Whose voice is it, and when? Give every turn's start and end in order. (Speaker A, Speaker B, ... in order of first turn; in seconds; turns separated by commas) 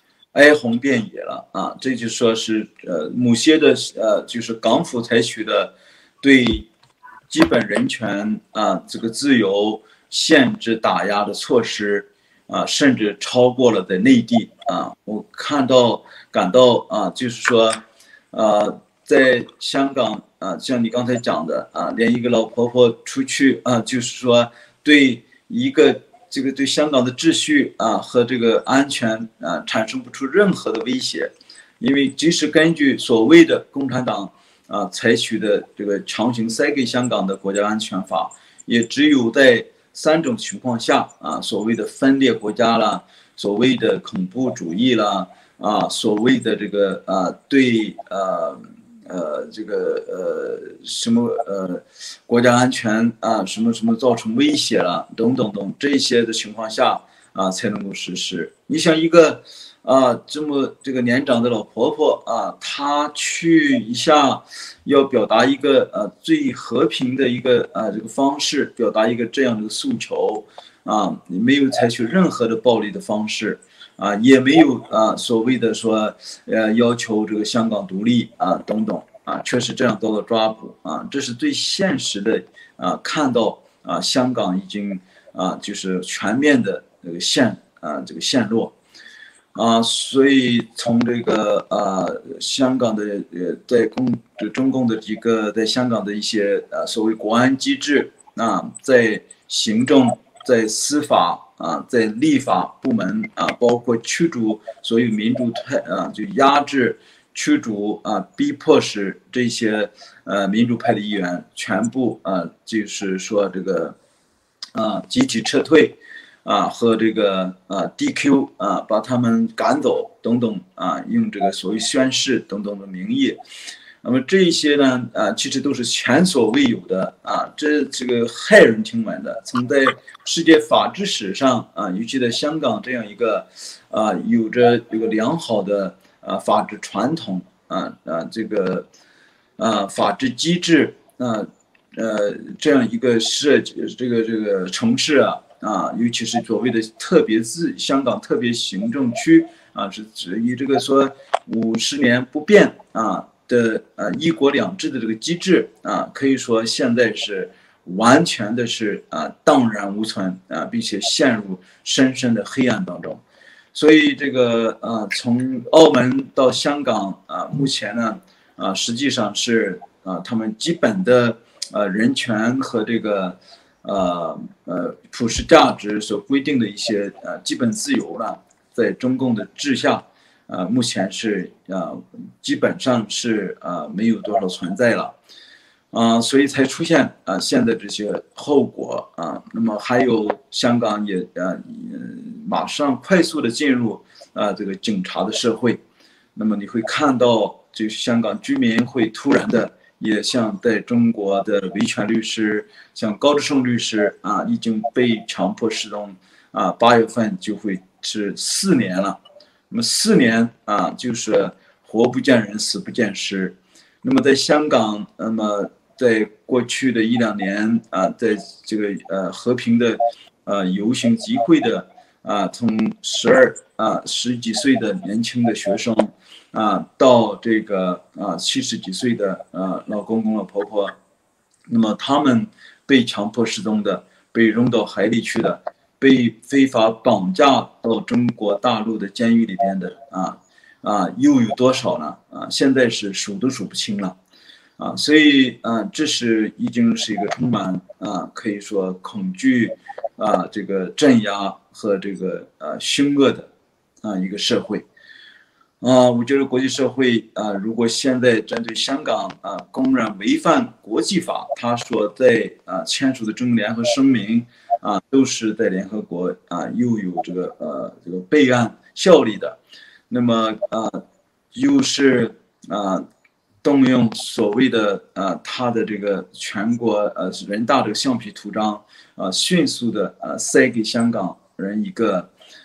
Speaker A: 0.3-6.7, Speaker A: 7.3-88.8, Speaker A: 89.5-114.0, Speaker A: 114.7-123.4, Speaker A: 124.0-138.9, Speaker A: 139.6-163.2, Speaker A: 163.7-185.2, Speaker A: 185.9-195.8, Speaker A: 196.3-209.2, Speaker A: 209.7-231.0, Speaker A: 231.7-244.2, Speaker A: 244.8-253.5, Speaker A: 254.0-254.9, Speaker A: 255.8-269.6, Speaker A: 270.1-271.0, Speaker A: 271.5-273.1, Speaker A: 273.6-282.3